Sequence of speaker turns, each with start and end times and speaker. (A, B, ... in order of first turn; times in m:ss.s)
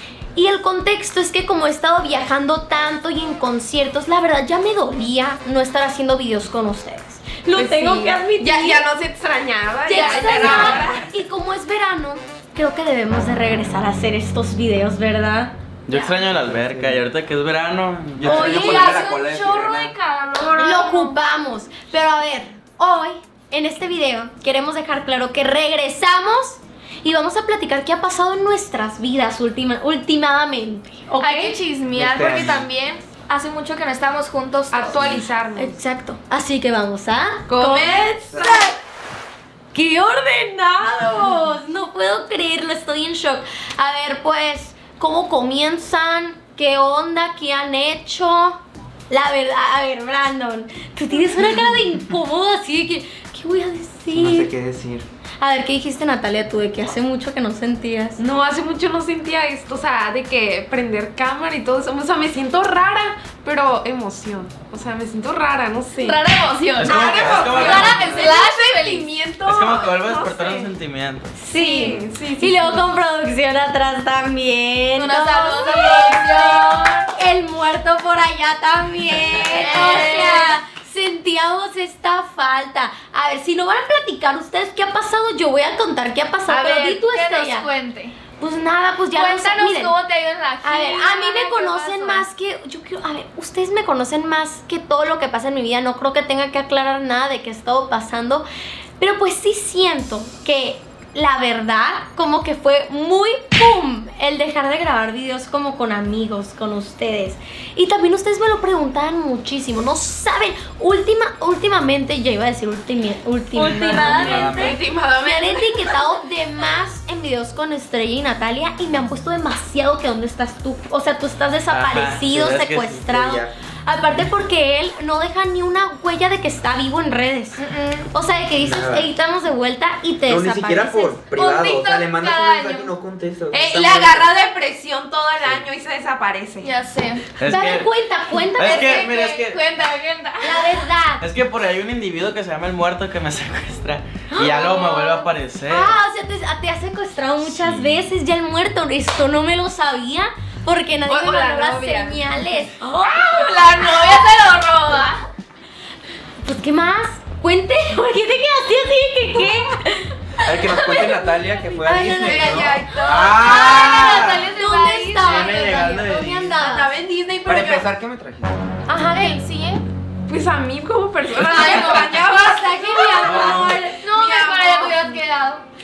0:00.3-0:08.9 A
0:07.5-0:11.0 B
0:09.8-0:16.1 A
0:09.9-0:10.8 C
0:15.9-0:18.6 D
0:16.3-0:17.0 E
0:18.2-0:19.9 E
0:18.2-0:21.2 C
0:20.5-0:31.5 A
0:31.2-0:35.0 C
0:31.9-0:32.7 E
0:34.7-0:35.7 B
0:35.5-0:38.8 A
0:37.5-0:38.5 B
0:38.3-0:38.6 E
0:39.7-0:54.5 A
0:54.1-0:55.0 E
0:55.4-0:58.2 A
0:58.2-1:06.2 B
1:06.0-1:09.1 C
1:06.8-1:10.7 B
1:06.8-1:08.3 D
1:07.0-1:08.0 E
1:09.4-1:11.3 D
1:11.3-1:27.7 A
1:11.5-1:12.8 B
1:15.0-1:17.1 C
1:19.5-1:20.6 C
1:26.5-1:28.2 C
1:28.4-1:29.9 A
1:29.1-1:32.3 C
1:30.6-1:38.4 A
1:39.0-2:11.2 A
1:53.6-1:54.5 C
1:53.6-1:54.8 E
1:53.8-1:56.0 B
2:01.7-2:03.0 D
2:02.9-2:03.6 E
2:07.6-2:08.1 C
2:08.6-2:09.1 E
2:10.3-2:14.3 E
2:11.3-2:12.9 C
2:13.5-2:16.7 B
2:16.6-2:17.3 C
2:17.4-2:17.9 D
2:17.4-2:19.1 A
2:18.6-2:19.6 D
2:18.6-2:20.2 B
2:18.6-2:20.4 C
2:20.4-2:21.2 A
2:21.2-2:26.0 D
2:24.3-2:33.4 A
2:27.5-2:27.9 D
2:31.0-2:32.2 B
2:33.0-2:35.2 C
2:36.4-2:42.9 A
2:40.4-2:42.8 E
2:42.1-2:43.7 B
2:43.0-2:44.5 D
2:43.3-2:45.9 C
2:43.5-2:46.9 A
2:45.2-2:46.6 D
2:46.6-2:47.9 B
2:47.4-2:48.7 E
2:48.9-2:49.4 A
2:49.1-2:49.8 C
2:50.3-2:55.1 B
2:51.3-2:52.3 C
2:51.5-2:54.0 A
2:53.2-2:53.9 D
2:54.0-2:55.6 C